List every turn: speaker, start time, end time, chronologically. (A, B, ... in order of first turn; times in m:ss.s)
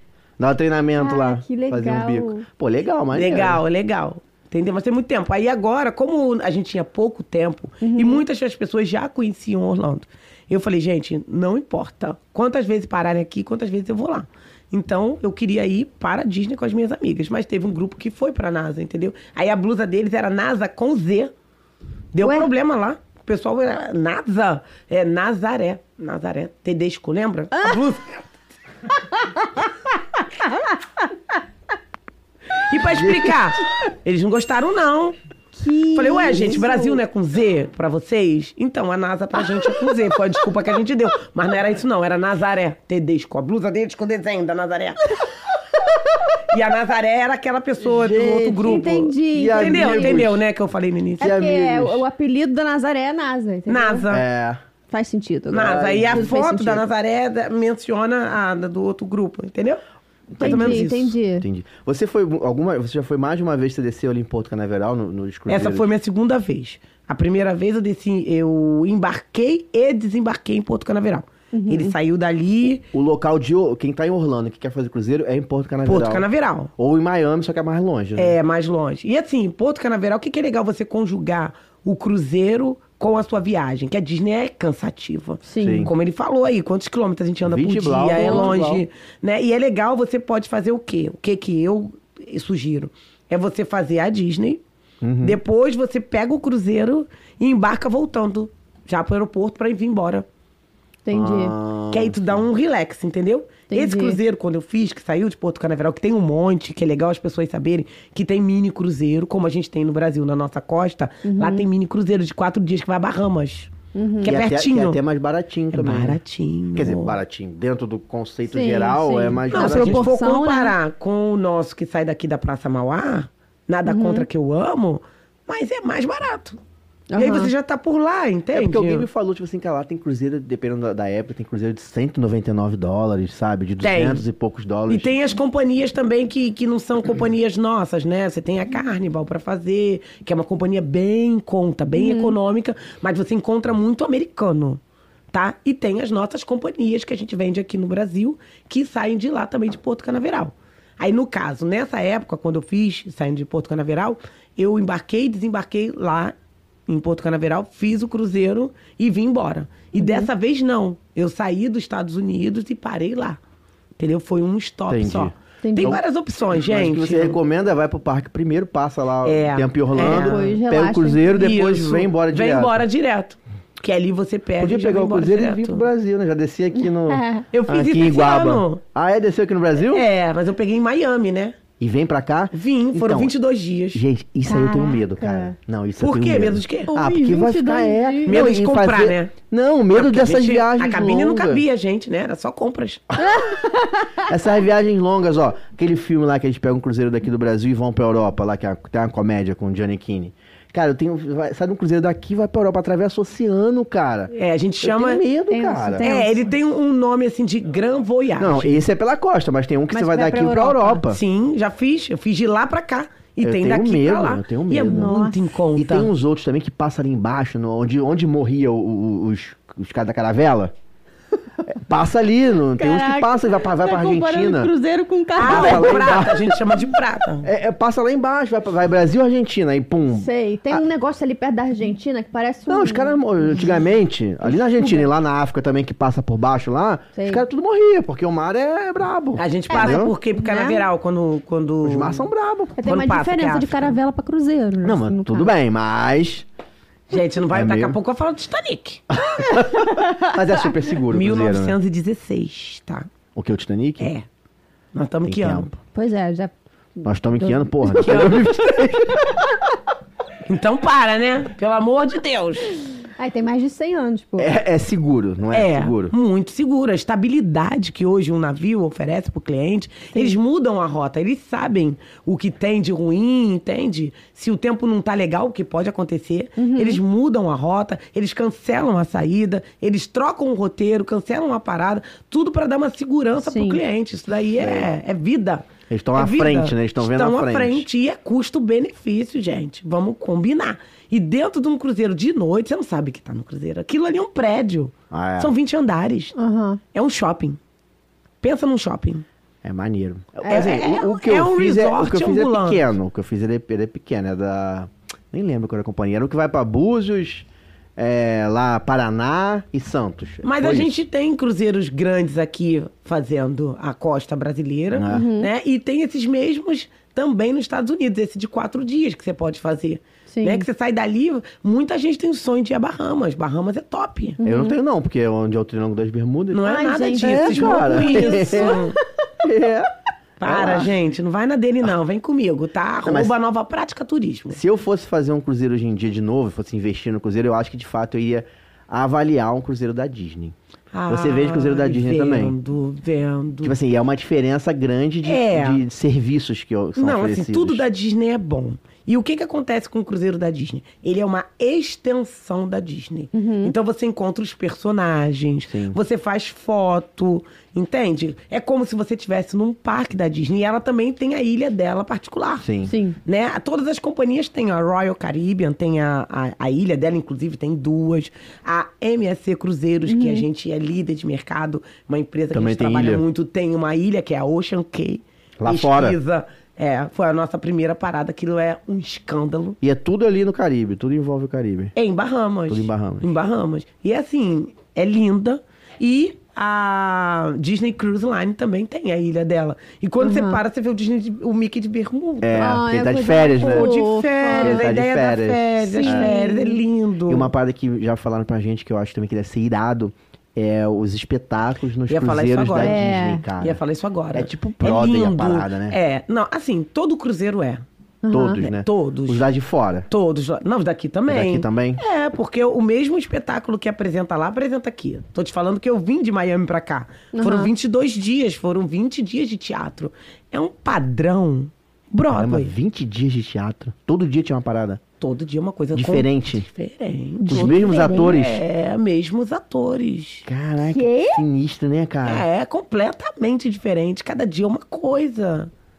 0:00.4-0:03.6 A
0:01.0-0:02.4 B
0:03.1-0:21.3 C
0:07.8-0:08.2 B
0:22.1-0:28.2 C
0:22.2-0:22.5 B
0:32.6-0:35.2 C
0:32.9-0:33.4 A
0:35.6-0:37.0 B
0:35.9-0:45.1 C
0:46.5-0:51.3 C
0:47.8-0:50.4 A
0:48.6-0:50.3 B
0:51.2-0:52.0 A
0:51.2-0:54.0 B
0:53.7-0:54.2 C
0:54.1-0:54.6 A
0:54.9-0:56.8 B
0:55.5-0:56.3 A
0:55.5-0:59.8 C
1:00.3-1:00.9 A
1:00.4-1:01.1 C
1:00.4-1:01.4 B
1:01.4-1:05.9 A
1:05.5-1:12.8 C
1:11.5-1:11.9 B
1:12.9-1:16.2 A
1:15.8-1:16.7 C
1:16.8-1:18.4 A
1:18.2-1:34.6 C
1:25.4-1:25.9 B
1:25.6-1:25.9 A
1:27.4-1:28.8 A
1:28.2-1:28.5 B
1:35.0-1:35.4 A
1:35.2-1:40.2 C
1:41.0-1:41.5 B
1:41.1-1:42.4 A
1:41.9-1:55.0 C
1:43.7-1:44.2 B
1:51.2-1:51.7 B
1:53.9-1:54.3 B
1:54.2-1:56.2 A
1:55.7-1:57.2 C
1:56.7-2:00.1 A
1:58.5-2:00.7 B
1:59.5-2:06.6 C
2:03.8-2:04.2 B
2:07.1-2:07.5 B
2:07.2-2:09.0 C
2:08.5-2:15.1 A
2:13.8-2:14.2 C
2:14.9-2:24.8 C
2:22.0-2:22.3 B
2:25.3-2:36.3 C
2:36.9-2:43.4 C
2:40.0-2:40.3 B
2:44.0-2:47.4 C
2:44.9-2:52.8 A
2:45.6-2:46.0 B
2:49.2-2:50.5 C
2:50.0-2:51.4 B
2:51.3-2:55.8 C
2:54.6-3:00.1 A
2:57.1-2:57.4 B
2:57.5-2:58.8 C
2:59.9-3:01.6 C
3:01.8-3:03.3 A
3:02.5-3:04.0 C
3:03.9-3:11.6 A
3:04.4-3:05.5 B
3:06.0-3:06.9 C
3:06.9-3:08.3 B
3:08.2-3:09.3 C
3:09.9-3:13.0 C
3:13.2-3:14.2 B
3:14.2-3:26.1 A
3:24.3-3:25.2 C
3:25.5-3:26.4 B
3:26.0-3:28.8 C
3:28.4-3:31.2 A
3:29.9-3:31.0 B
3:31.1-3:36.1 C
3:33.4-3:35.2 A
3:34.8-3:35.4 B
3:35.8-3:40.7 A
3:41.7-3:44.7 A
3:42.8-3:46.3 B
3:45.4-3:47.5 C
3:45.4-3:46.5 A
3:47.4-3:50.8 A
3:50.1-3:53.6 B
3:52.7-4:00.1 A
3:54.8-3:55.0 B
3:57.1-3:57.4 B
3:59.4-4:02.3 C
3:59.7-4:00.8 B
4:01.8-4:02.8 A
4:02.8-4:05.5 B
4:02.8-4:04.0 C
4:04.8-4:06.4 A
4:07.1-4:09.0 C
4:07.5-4:08.0 A
4:09.1-4:11.8 A
4:11.1-4:13.1 C
4:13.4-4:14.1 A
4:14.0-4:14.2 C
4:14.9-4:15.7 C
4:15.2-4:15.7 A
4:15.9-4:18.4 B
4:17.0-4:19.4 A
4:17.9-4:18.5 C
4:20.4-4:22.7 C
4:23.2-4:24.5 B
4:24.4-4:26.1 A
4:25.5-4:56.3 C
4:36.6-4:37.0 B
4:43.4-4:43.8 B
4:44.6-4:44.9 A
4:45.9-4:47.8 A
4:55.1-4:55.5 A
4:56.4-4:56.8 B
4:56.9-4:57.6 C
4:58.4-4:59.2 C
4:59.6-5:11.0 A
5:00.5-5:02.8 C
5:10.4-5:24.4 C
5:14.9-5:15.3 A
5:15.1-5:15.5 B
5:20.3-5:20.6 B
5:24.4-5:24.8 B
5:24.4-5:28.8 A
5:26.5-5:29.0 C
5:26.6-5:28.9 B
5:29.4-5:29.9 A
5:30.4-5:34.6 C
5:30.4-5:30.9 A
5:33.0-5:33.3 A
5:34.5-5:40.5 A
5:40.9-5:43.8 C
5:41.1-5:42.5 A
5:43.6-5:47.8 A
5:45.2-5:45.8 C
5:47.0-6:02.7 C
5:53.3-5:53.7 B
5:55.7-5:56.0 A
6:02.6-6:02.9 A
6:02.8-6:03.2 B
6:03.2-6:19.8 C
6:10.1-6:10.4 B
6:12.5-6:13.2 A
6:15.6-6:16.2 A
6:19.8-6:21.9 A
6:22.0-6:32.8 C
6:22.7-6:23.3 A
6:30.2-6:30.6 B
6:32.4-6:33.9 A
6:32.6-6:34.9 B
6:33.5-6:37.5 C
6:34.5-6:36.3 A
6:35.8-6:36.8 B
6:37.3-6:43.8 A
6:42.1-6:43.0 C
6:42.8-6:43.4 B
6:43.6-6:47.8 C
6:44.3-6:46.0 A
6:48.2-6:48.6 B
6:48.3-6:50.1 A
6:48.5-6:49.5 C
6:50.1-7:02.7 C
6:51.3-6:52.0 A
6:57.3-6:57.7 B
7:02.3-7:05.0 A
7:05.2-7:10.4 C
7:05.9-7:06.7 A
7:07.4-7:08.3 B
7:07.5-7:08.6 A
7:10.4-7:12.4 A
7:10.9-7:11.4 B
7:12.2-7:15.7 C